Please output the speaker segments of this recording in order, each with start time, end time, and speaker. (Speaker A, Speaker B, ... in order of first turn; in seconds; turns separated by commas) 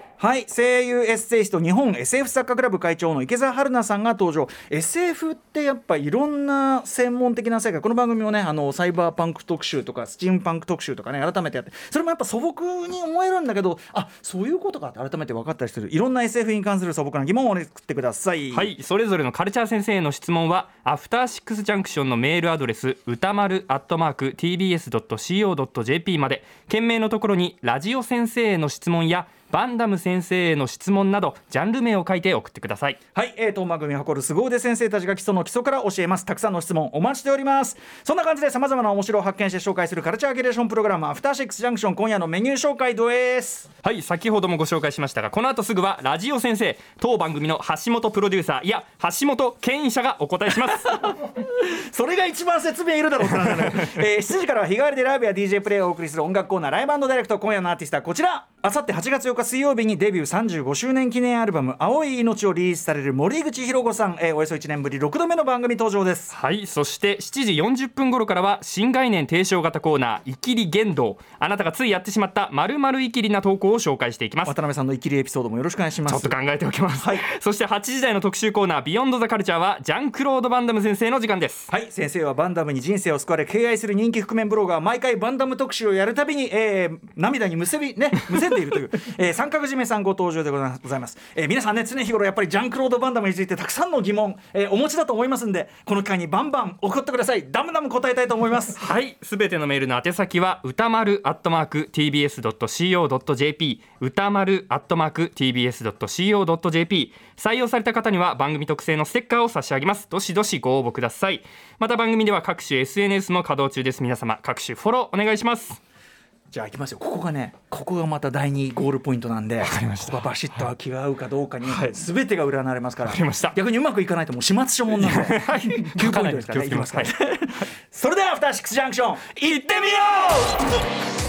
Speaker A: 0.2-18.7, Speaker B: 18.5-33.0, Speaker A: 33.1-43.7, Speaker B: 43.8-51.2, Speaker A: 51.4-66.3, Speaker B: 66.3-74.5, Speaker A: 74.5-76.3, Speaker B: 76.1-81.7, Speaker A: 77.0-77.2, Speaker A: 81.7-98.8, Speaker B: 98.8-115.8, Speaker A: 116.5-130.7, Speaker B: 119.6-120.7, Speaker B: 121.6-122.0, Speaker B: 123.0-123.6, Speaker B: 124.9-127.2